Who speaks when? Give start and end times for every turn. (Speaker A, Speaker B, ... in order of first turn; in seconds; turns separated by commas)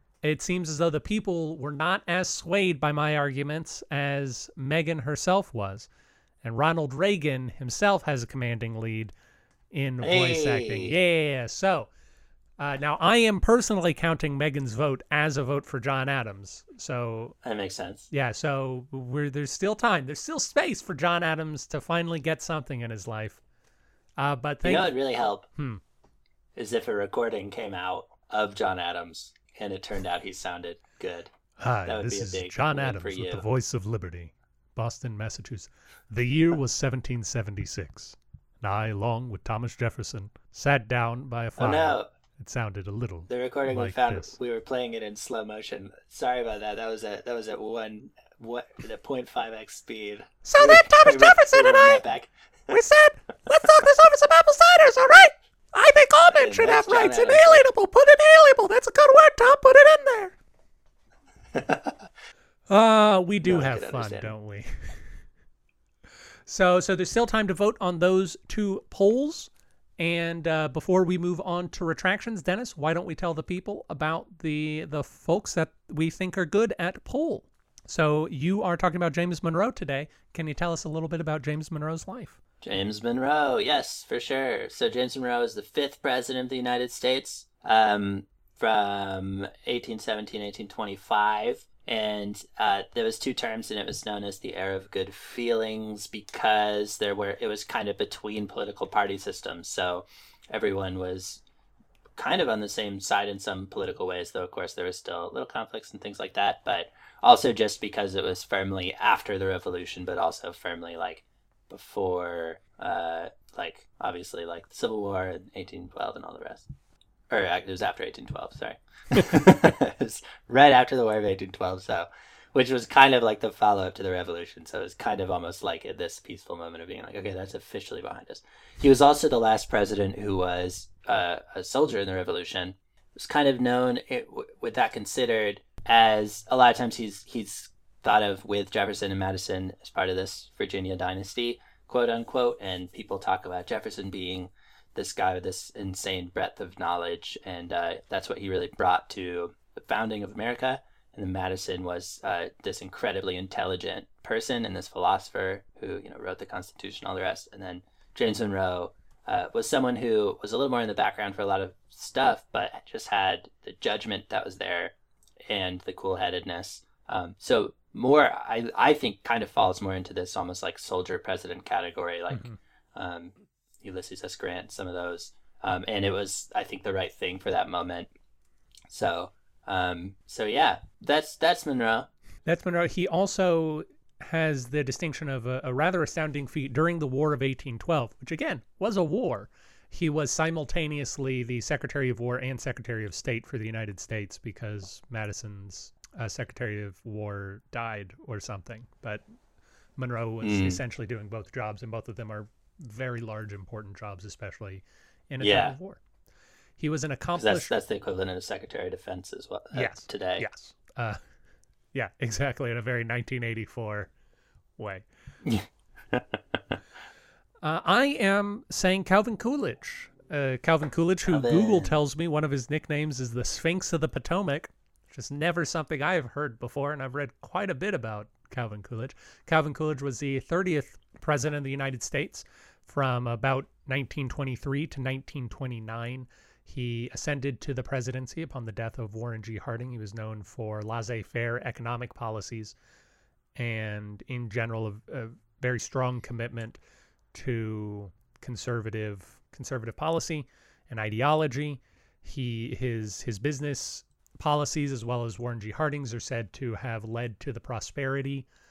Speaker A: 0.2-5.9, Speaker A: 6.4-9.1, Speaker A: 9.7-11.9, Speaker B: 10.0-10.9, Speaker A: 12.6-17.4, Speaker B: 17.4-18.1, Speaker A: 18.1-23.4, Speaker A: 24.2-25.0, Speaker B: 24.6-25.5, Speaker A: 25.5-25.8, Speaker B: 26.6-31.3, Speaker A: 31.6-44.3, Speaker B: 31.9-33.4, Speaker B: 41.6-42.1, Speaker B: 43.3-52.3, Speaker A: 50.4-52.0, Speaker A: 52.7-60.4, Speaker B: 56.3-57.6, Speaker B: 61.5-62.1, Speaker A: 62.7-64.9, Speaker B: 63.4-64.3, Speaker A: 66.5-82.4, Speaker B: 82.6-101.4, Speaker B: 102.2-116.7, Speaker B: 117.3-164.9, Speaker B: 165.5-178.1, Speaker A: 172.3-172.6, Speaker B: 178.9-182.1, Speaker A: 182.5-199.2, Speaker A: 200.0-206.0, Speaker B: 200.4-200.8, Speaker B: 205.4-205.8, Speaker A: 206.8-207.7, Speaker B: 207.4-210.5, Speaker A: 209.7-211.2, Speaker A: 211.9-214.1, Speaker A: 214.8-215.0, Speaker B: 215.4-216.6, Speaker A: 217.6-242.8, Speaker B: 221.3-221.9, Speaker A: 243.6-246.8, Speaker A: 247.3-258.5